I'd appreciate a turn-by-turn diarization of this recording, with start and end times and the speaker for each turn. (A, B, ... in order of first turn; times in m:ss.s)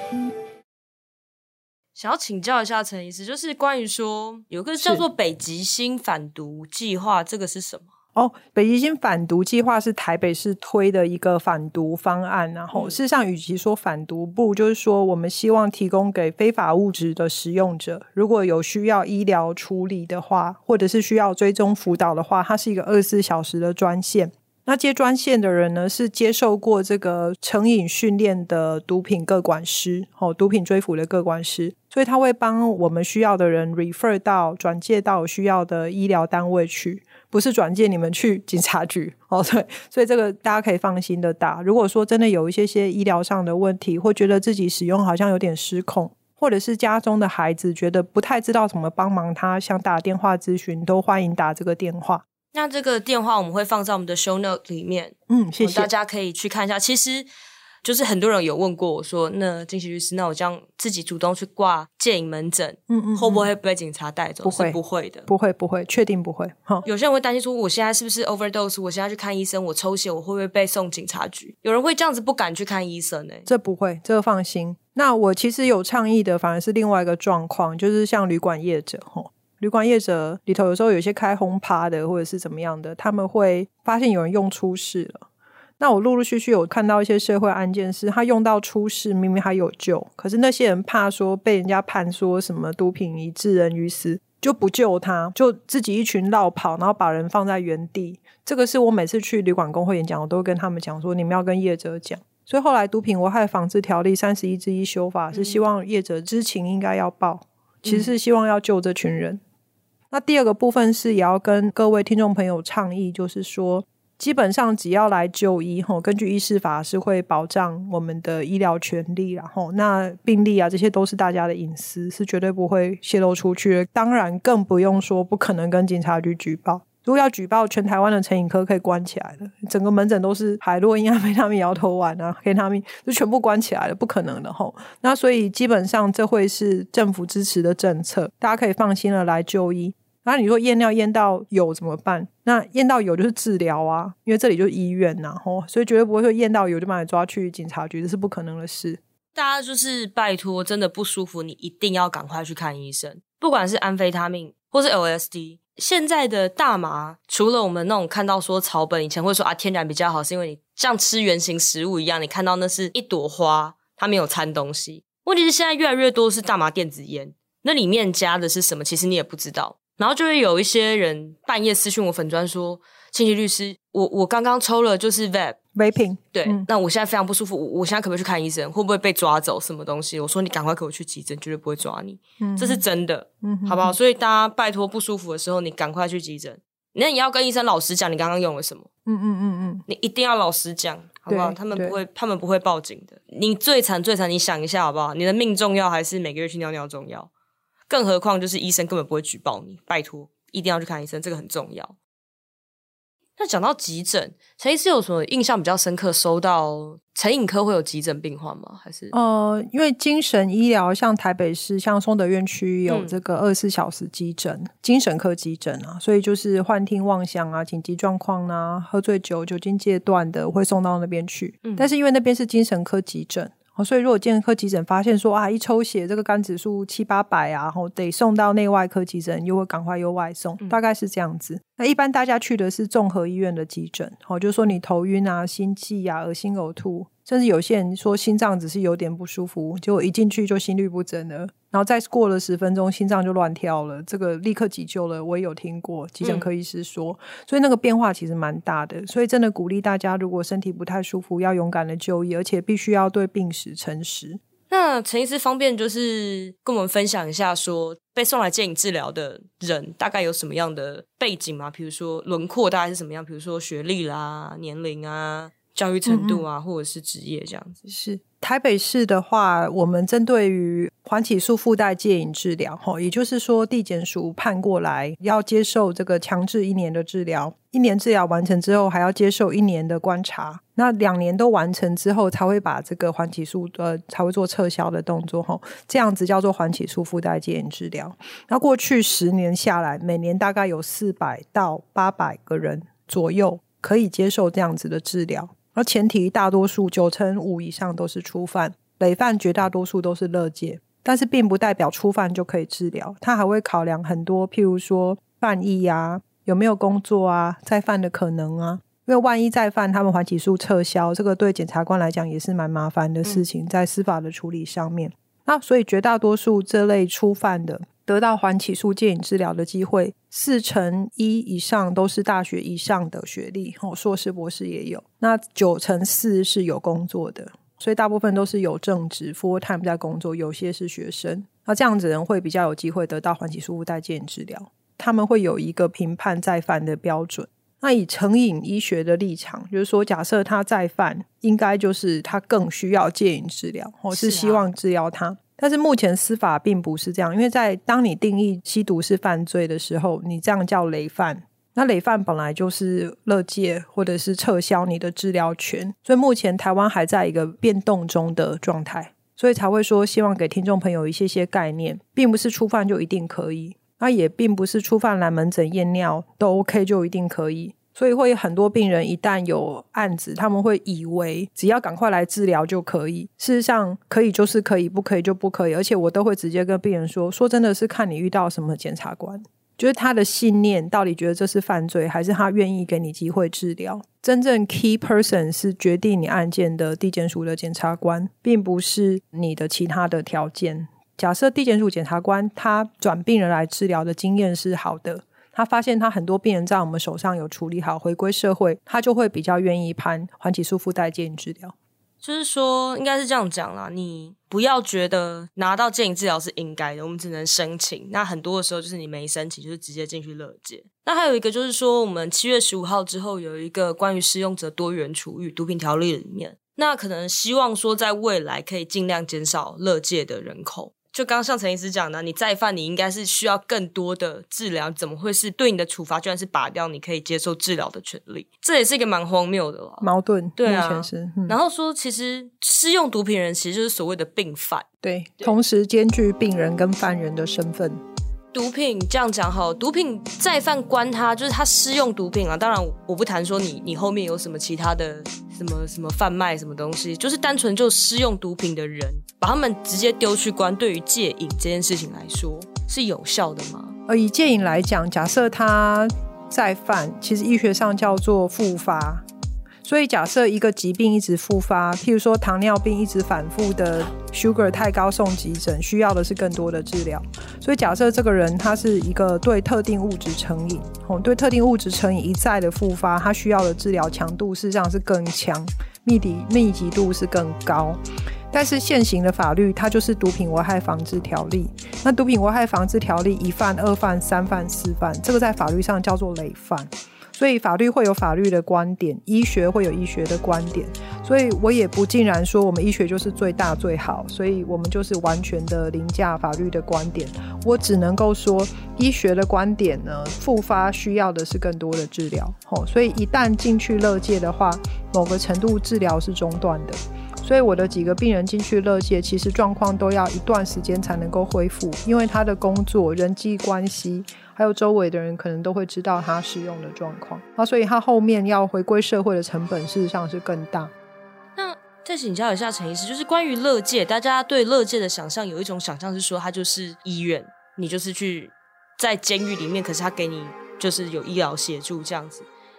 0:01.9-0:07.9 A
0:08.1-0:52.2 B
0:12.7-0:13.0 A
0:52.5-0:57.3 A
0:55.3-0:55.9 B
0:57.8-1:05.3 A
1:02.9-1:03.5 B
1:04.4-1:06.8 B
1:06.8-1:13.4 A
1:13.4-1:25.3 B
1:25.8-1:49.4 B
1:45.3-1:45.6 A
1:50.1-2:29.0 B
2:29.3-2:55.6 A
2:55.7-2:56.6 B
2:56.3-3:08.9 A
3:02.4-3:02.8 B
3:03.4-3:04.0 B
3:09.0-3:09.8 B
3:09.9-3:17.3 A
3:11.3-3:12.0 B
3:17.9-3:21.9 A
3:23.4-3:29.1 A
3:29.1-4:14.4 B
3:32.9-3:33.2 A
3:41.6-3:41.9 A
4:06.2-4:06.5 A
4:14.7-4:27.8 A
4:26.0-4:26.4 B
4:27.8-6:41.7 B
5:44.1-5:44.7 A
6:42.2-7:14.8 A
7:10.0-7:11.6 B
7:15.0-7:18.0 B
7:18.5-7:34.0 A
7:34.1-7:39.2 B
7:39.8-7:58.0 B
7:58.5-8:40.9 B
8:41.6-8:52.5 A